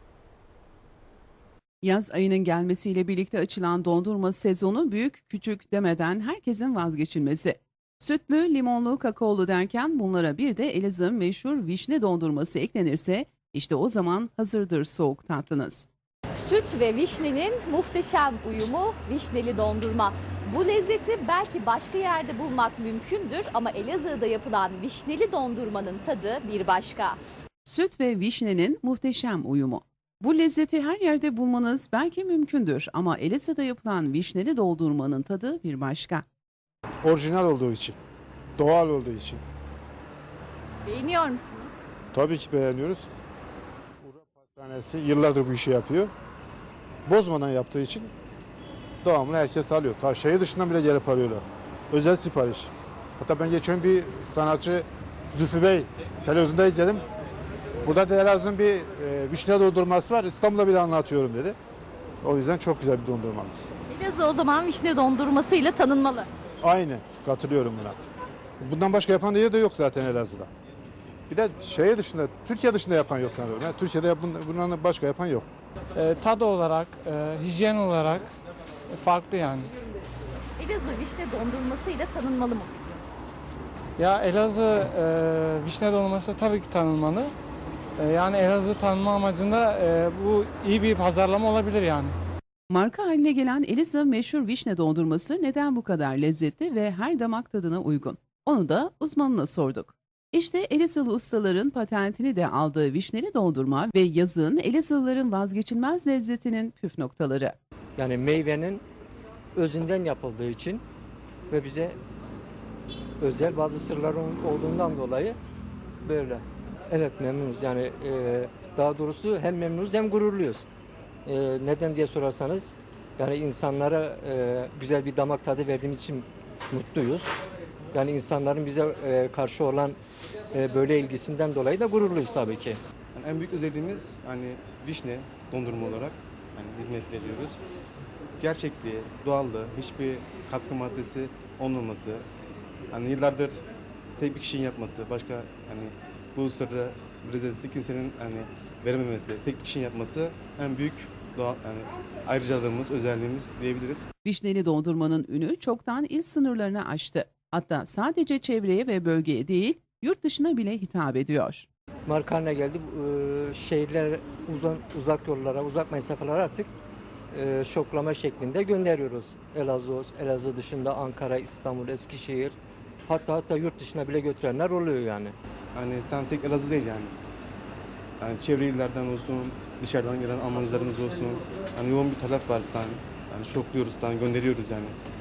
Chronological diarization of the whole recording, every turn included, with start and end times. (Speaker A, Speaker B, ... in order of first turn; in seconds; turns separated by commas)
Speaker A: 1.8-15.9, Speaker B: 16.4-27.2, Speaker A: 27.6-36.2, Speaker C: 37.0-38.0, Speaker C: 38.6-39.4, Speaker B: 40.9-41.7, Speaker C: 42.1-43.1, Speaker C: 44.0-46.1, Speaker C: 47.1-48.1, Speaker C: 49.0-57.0, Speaker C: 57.8-61.6, Speaker C: 62.2-63.7, Speaker B: 63.9-66.3, Speaker C: 66.6-68.0, Speaker C: 68.6-70.5, Speaker C: 71.3-75.5, Speaker D: 76.0-78.3, Speaker D: 78.9-79.7, Speaker B: 80.6-82.8, Speaker D: 84.0-87.3, Speaker D: 88.0-92.2, Speaker A: 92.7-107.6, Speaker E: 108.0-108.8, Speaker E: 109.5-110.8, Speaker E: 111.5-112.0, Speaker E: 113.2-115.4, Speaker E: 116.0-120.7, Speaker E: 121.3-127.4, Speaker E: 127.9-130.0, Speaker E: 130.5-132.8, Speaker F: 133.1-137.6, Speaker F: 138.4-142.2, Speaker F: 142.9-143.6, Speaker F: 144.2-154.1, Speaker A: 154.2-161.7, Speaker E: 162.1-166.7, Speaker E: 167.3-175.4, Speaker F: 175.7-177.2, Speaker F: 178.2-185.0